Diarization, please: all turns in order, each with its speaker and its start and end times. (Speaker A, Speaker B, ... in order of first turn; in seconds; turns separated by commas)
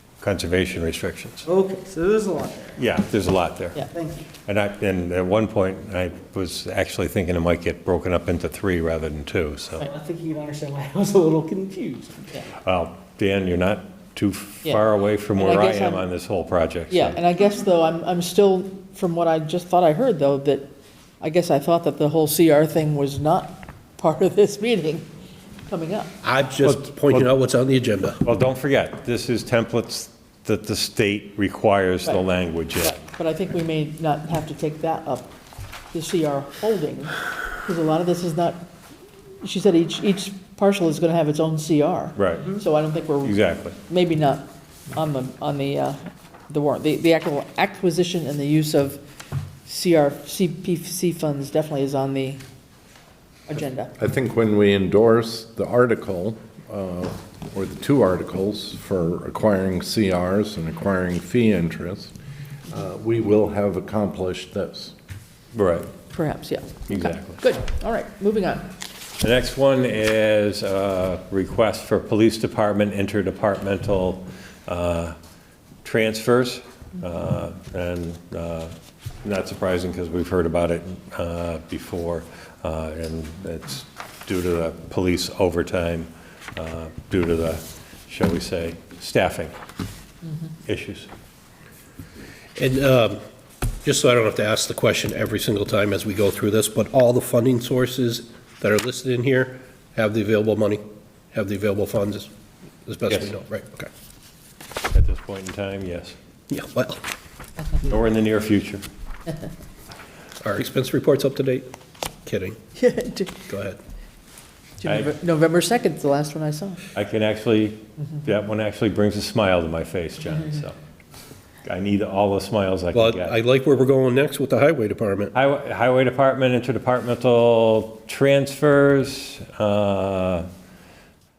Speaker A: 0.2-1.5, Speaker B: 1.5-2.8, Speaker A: 2.8-3.9, Speaker B: 3.9-4.3, Speaker A: 4.5-9.9, Speaker B: 9.8-12.4, Speaker A: 12.6-17.2, Speaker C: 15.4-16.1, Speaker C: 16.9-25.1, Speaker C: 25.7-26.1, Speaker D: 26.2-28.2, Speaker A: 26.7-27.2, Speaker A: 28.2-33.0, Speaker C: 32.8-35.3, Speaker C: 35.9-38.7, Speaker C: 39.4-49.0, Speaker A: 42.2-42.5, Speaker A: 43.2-43.8, Speaker C: 49.7-52.4, Speaker C: 53.5-53.9, Speaker E: 54.0-62.1, Speaker E: 62.7-64.9, Speaker A: 65.5-65.9, Speaker C: 66.1-68.7, Speaker A: 66.9-67.4, Speaker A: 69.2-75.2, Speaker A: 75.8-89.5, Speaker A: 90.7-91.1, Speaker D: 92.6-93.2, Speaker D: 93.8-100.8, Speaker D: 101.3-102.3, Speaker D: 102.9-103.9, Speaker A: 104.9-106.2, Speaker D: 106.5-107.0, Speaker A: 107.8-108.8, Speaker D: 110.4-111.7, Speaker D: 112.2-112.6, Speaker C: 112.8-113.3, Speaker D: 113.5-113.8, Speaker C: 114.8-116.8, Speaker A: 116.9-120.8, Speaker A: 121.6-123.3, Speaker D: 122.9-125.3, Speaker A: 125.3-130.5